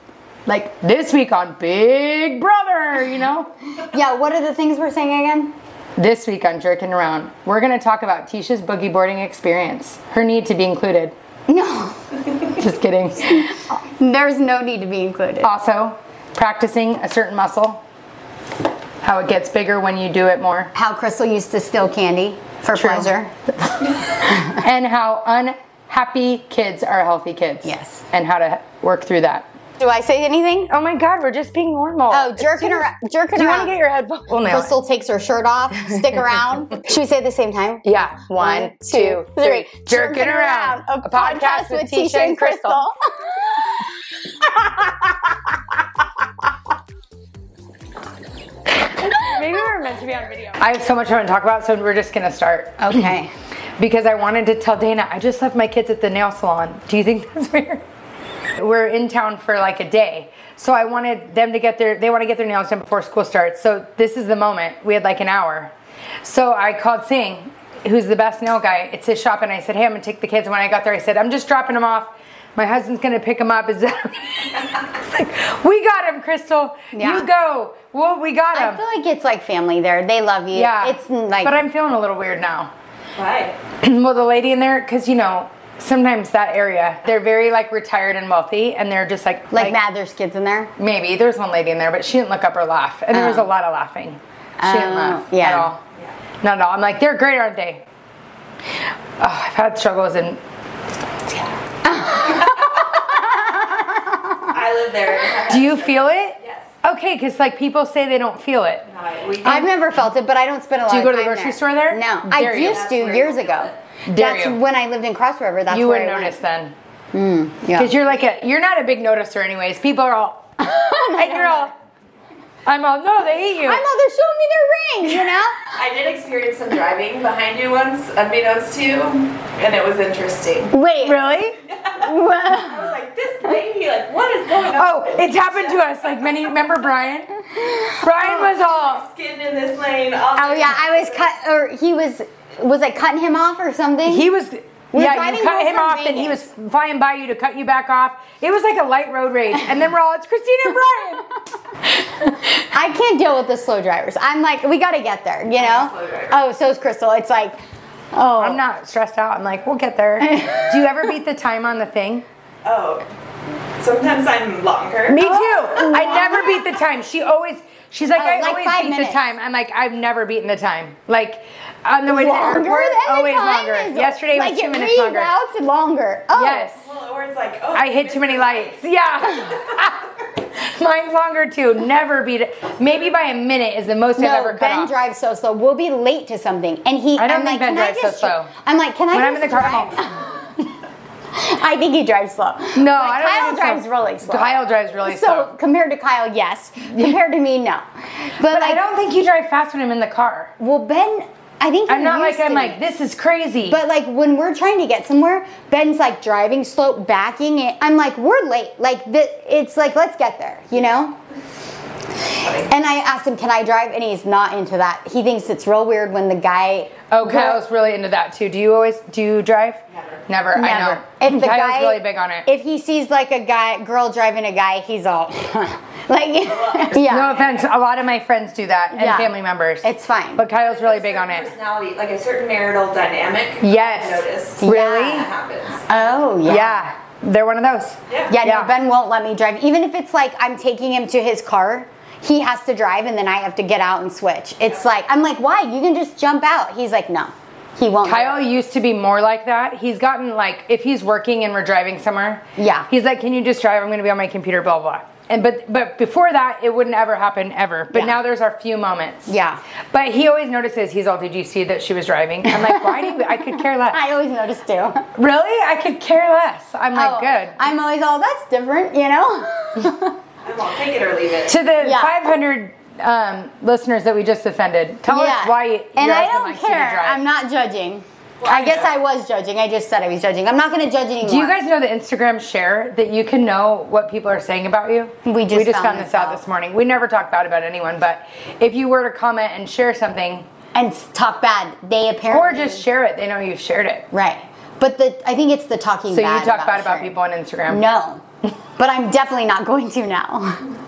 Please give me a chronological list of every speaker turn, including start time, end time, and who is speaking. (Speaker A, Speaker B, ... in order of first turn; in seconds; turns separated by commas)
Speaker A: 0.5-3.5, Speaker B: 3.8-5.5, Speaker A: 6.0-11.1, Speaker B: 11.5-12.2, Speaker A: 12.6-13.5, Speaker B: 13.3-15.5, Speaker A: 15.4-17.8, Speaker A: 19.0-20.7, Speaker B: 20.7-23.3, Speaker A: 22.7-23.1, Speaker B: 24.2-24.6, Speaker A: 24.3-29.5, Speaker B: 27.6-28.0, Speaker B: 29.8-30.7, Speaker A: 30.7-34.7, Speaker B: 32.1-33.8, Speaker B: 34.4-43.7, Speaker A: 37.8-42.8, Speaker A: 49.0-53.1, Speaker B: 52.8-53.3, Speaker A: 53.8-57.8, Speaker A: 58.5-78.8, Speaker B: 76.9-77.2, Speaker B: 78.5-81.5, Speaker A: 80.5-82.7, Speaker C: 83.2-83.5, Speaker A: 83.8-89.8, Speaker B: 89.5-90.7, Speaker A: 90.8-95.8, Speaker B: 93.1-93.5, Speaker B: 94.6-95.7, Speaker A: 96.4-97.8, Speaker A: 99.2-100.4, Speaker B: 101.8-104.5, Speaker C: 104.5-106.7, Speaker A: 105.5-108.8, Speaker C: 108.9-109.7, Speaker B: 109.4-116.3, Speaker A: 110.9-112.9, Speaker C: 112.4-113.8, Speaker A: 114.0-114.6, Speaker A: 115.7-116.7, Speaker B: 117.1-117.9, Speaker A: 117.7-121.7, Speaker B: 120.6-121.7, Speaker A: 122.7-123.8, Speaker B: 123.5-125.6, Speaker C: 125.7-130.7, Speaker B: 130.7-131.2, Speaker A: 131.0-131.6, Speaker C: 131.7-136.7, Speaker B: 132.0-132.9, Speaker A: 134.7-137.3, Speaker B: 137.6-138.3, Speaker A: 137.8-139.0, Speaker C: 138.4-141.2, Speaker B: 140.3-144.3, Speaker A: 144.1-151.2, Speaker B: 144.9-146.5, Speaker A: 152.0-152.4, Speaker B: 152.6-157.6, Speaker C: 155.6-156.4, Speaker B: 158.1-158.6, Speaker A: 158.4-162.2, Speaker B: 160.2-160.9, Speaker C: 162.6-163.1, Speaker C: 163.8-165.2, Speaker A: 165.1-175.3, Speaker B: 165.2-166.6, Speaker B: 168.1-169.3, Speaker B: 172.1-176.7, Speaker A: 176.3-176.8, Speaker C: 176.8-178.8, Speaker A: 177.7-184.9, Speaker B: 184.2-190.5, Speaker A: 187.2-188.5, Speaker A: 189.1-190.0, Speaker B: 191.3-198.8, Speaker A: 192.7-195.5, Speaker A: 198.4-200.5, Speaker B: 200.6-202.8, Speaker A: 201.9-203.8, Speaker B: 203.7-211.2, Speaker B: 212.4-217.6, Speaker A: 217.1-222.5, Speaker C: 219.9-220.2, Speaker B: 220.5-227.4, Speaker C: 226.5-227.4, Speaker A: 226.9-231.5, Speaker B: 228.9-230.4, Speaker C: 230.5-236.1, Speaker A: 233.6-235.3, Speaker B: 234.6-235.3, Speaker B: 235.9-236.8, Speaker A: 236.4-238.7, Speaker B: 238.3-248.4, Speaker A: 248.0-259.3, Speaker B: 252.6-252.9, Speaker B: 257.9-258.2, Speaker B: 259.3-259.6, Speaker A: 259.9-264.0, Speaker B: 262.4-265.1, Speaker A: 265.1-267.6, Speaker B: 266.9-270.2, Speaker C: 270.4-271.6, Speaker A: 271.5-277.2, Speaker B: 271.8-272.1, Speaker B: 275.1-281.6, Speaker C: 278.4-278.9, Speaker A: 281.2-290.4, Speaker B: 285.2-286.4, Speaker B: 290.7-292.8, Speaker A: 292.3-294.1, Speaker B: 294.1-297.1, Speaker A: 296.1-297.8, Speaker B: 297.7-298.2, Speaker B: 298.8-300.7